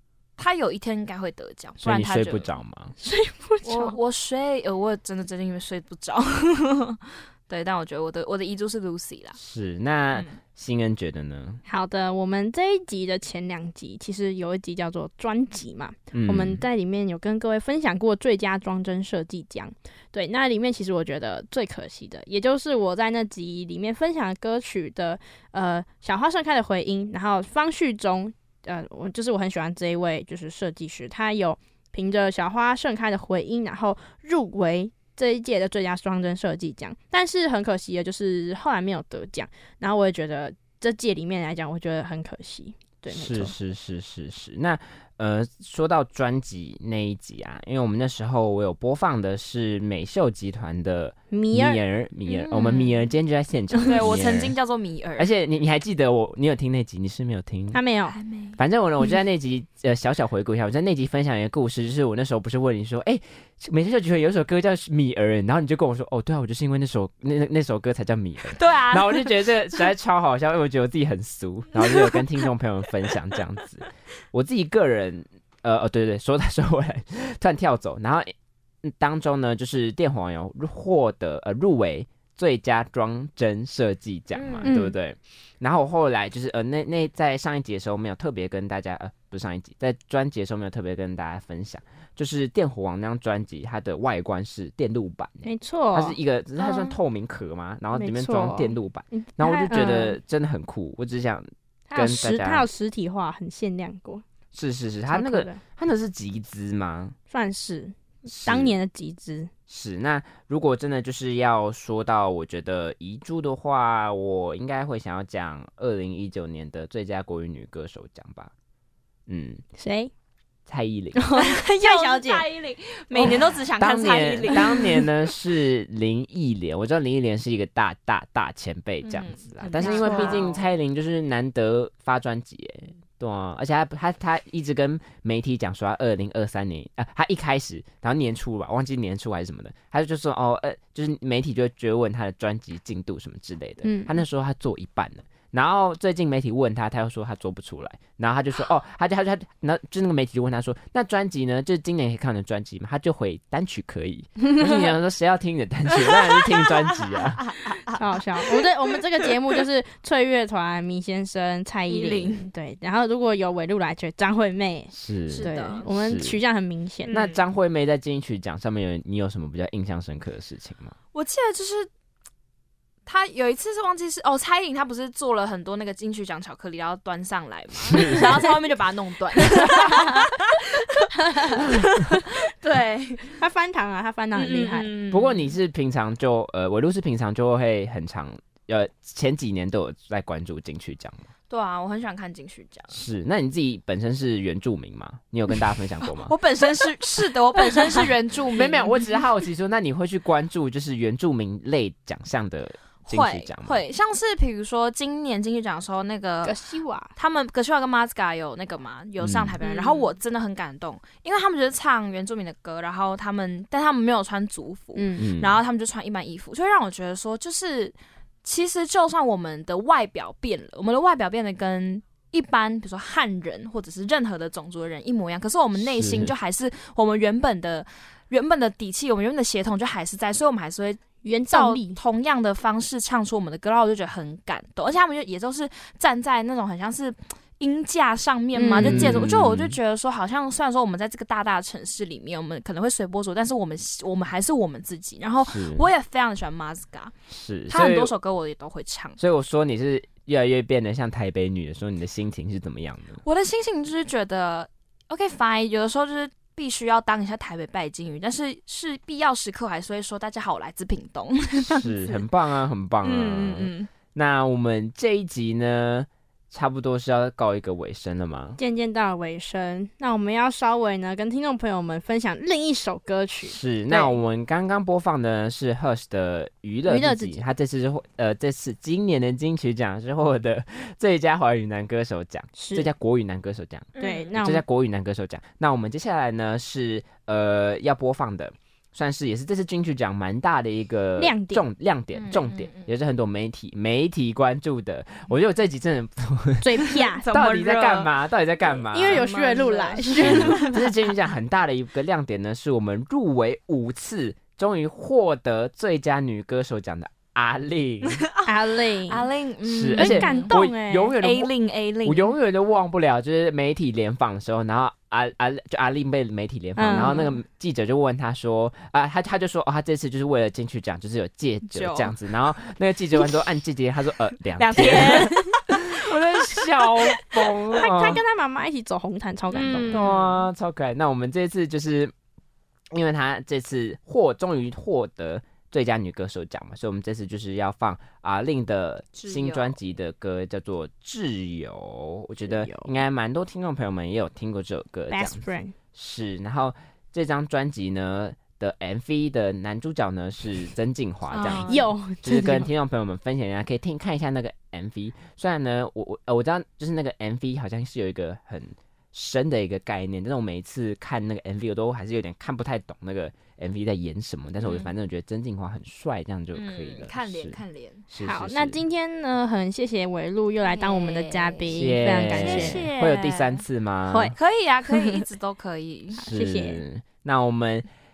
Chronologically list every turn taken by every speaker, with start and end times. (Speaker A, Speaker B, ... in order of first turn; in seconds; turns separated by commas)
Speaker A: 0.4-2.5, Speaker B: 1.8-2.9, Speaker C: 3.0-4.0, Speaker A: 3.6-9.4, Speaker B: 9.4-11.6, Speaker A: 10.1-10.4, Speaker C: 11.7-43.5, Speaker B: 16.1-16.6, Speaker B: 43.1-54.5, Speaker C: 51.3-51.8, Speaker A: 52.3-53.1, Speaker A: 53.9-55.3, Speaker B: 55.2-57.8, Speaker C: 57.7-58.2, Speaker A: 58.1-58.6, Speaker B: 58.6-102.7, Speaker A: 68.5-69.4, Speaker A: 71.8-72.2, Speaker A: 84.3-84.7, Speaker C: 84.7-85.0, Speaker C: 95.4-96.2, Speaker A: 96.6-97.0, Speaker C: 97.9-100.2, Speaker C: 101.9-104.2, Speaker B: 104.5-107.2, Speaker C: 105.1-105.6, Speaker C: 107.3-109.5, Speaker B: 108.3-108.8, Speaker B: 109.7-118.5, Speaker B: 119.3-119.6, Speaker C: 119.8-120.1, Speaker B: 120.7-121.2, Speaker C: 121.2-122.5, Speaker A: 121.4-125.0, Speaker B: 123.2-157.5, Speaker A: 129.0-130.7, Speaker C: 129.7-130.4, Speaker C: 143.8-144.2, Speaker A: 156.1-156.4, Speaker A: 157.5-158.7, Speaker C: 158.0-167.2, Speaker A: 161.9-162.5, Speaker B: 164.9-166.4, Speaker A: 165.3-165.9, Speaker A: 167.1-167.4, Speaker B: 167.1-170.9, Speaker A: 171.1-171.9, Speaker A: 173.1-183.4, Speaker B: 177.9-178.3, Speaker C: 179.5-180.3, Speaker C: 181.2-182.3, Speaker C: 183.4-184.9, Speaker A: 184.3-185.5, Speaker B: 185.1-191.3, Speaker A: 191.5-192.9, Speaker B: 192.9-196.3, Speaker A: 196.2-199.2, Speaker B: 198.6-203.8, Speaker A: 203.1-206.6, Speaker C: 206.4-207.1, Speaker A: 207.2-247.1, Speaker B: 209.2-209.6, Speaker C: 209.6-210.1, Speaker C: 214.9-215.2, Speaker B: 215.2-215.6, Speaker B: 225.8-226.3, Speaker C: 231.2-232.0, Speaker C: 238.6-239.2, Speaker B: 238.8-239.8, Speaker B: 245.4-245.9, Speaker B: 247.3-248.1, Speaker A: 247.7-249.2, Speaker B: 249.2-253.2, Speaker A: 253.2-262.2, Speaker B: 261.7-268.6, Speaker A: 263.0-263.9, Speaker C: 268.6-274.1, Speaker B: 273.4-299.2, Speaker C: 276.9-277.4, Speaker C: 282.6-282.9, Speaker A: 284.0-284.3, Speaker C: 284.0-284.6, Speaker C: 291.2-291.6, Speaker A: 292.1-292.9, Speaker C: 296.6-297.3, Speaker A: 296.9-298.1, Speaker A: 298.7-300.8, Speaker C: 298.9-300.8, Speaker B: 300.2-308.2, Speaker A: 308.0-310.7, Speaker C: 308.5-309.3, Speaker B: 309.6-311.5, Speaker C: 310.0-311.1, Speaker A: 311.2-312.3, Speaker B: 312.0-328.2, Speaker C: 316.8-317.2, Speaker A: 321.7-322.1, Speaker A: 324.6-325.8, Speaker C: 324.8-325.6, Speaker C: 327.7-330.0, Speaker A: 329.5-330.4, Speaker B: 329.8-332.1, Speaker B: 332.9-368.8, Speaker A: 339.2-339.7, Speaker C: 342.5-342.9, Speaker C: 345.1-345.8, Speaker A: 351.3-351.9, Speaker C: 351.7-352.7, Speaker A: 364.6-364.9, Speaker A: 366.5-368.0, Speaker C: 368.2-372.9, Speaker A: 370.7-373.6, Speaker B: 371.7-374.4, Speaker A: 374.4-376.2, Speaker C: 374.9-375.2, Speaker C: 376.2-376.8, Speaker B: 376.2-377.9